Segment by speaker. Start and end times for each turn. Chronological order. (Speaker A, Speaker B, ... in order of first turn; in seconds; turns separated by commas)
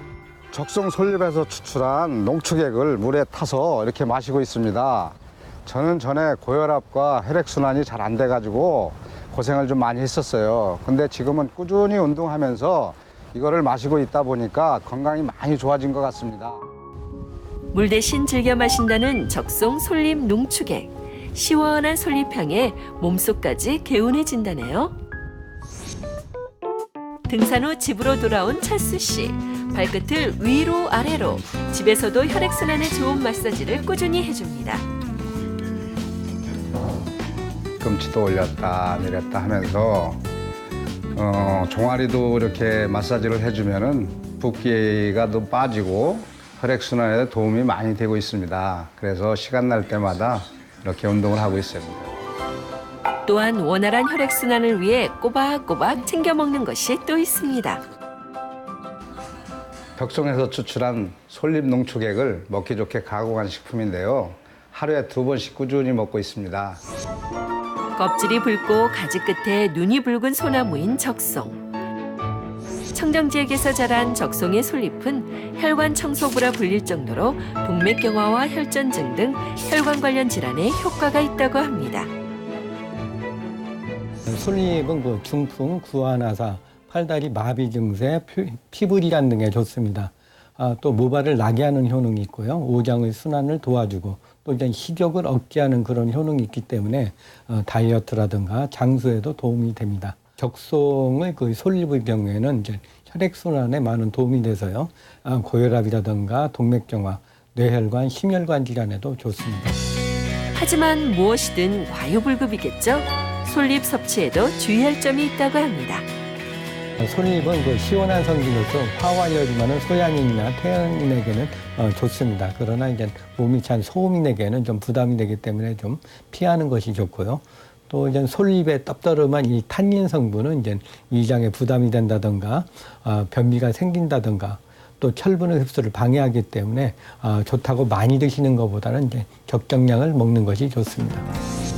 Speaker A: 0.5-16.6, Speaker B: 17.7-24.9, Speaker B: 27.3-34.9, Speaker A: 37.8-40.2, Speaker A: 41.1-52.1, Speaker B: 53.2-57.8, Speaker A: 60.0-66.8, Speaker B: 68.0-71.6, Speaker B: 72.9-82.1, Speaker C: 84.2-109.8, Speaker B: 110.5-116.1, Speaker C: 117.0-141.3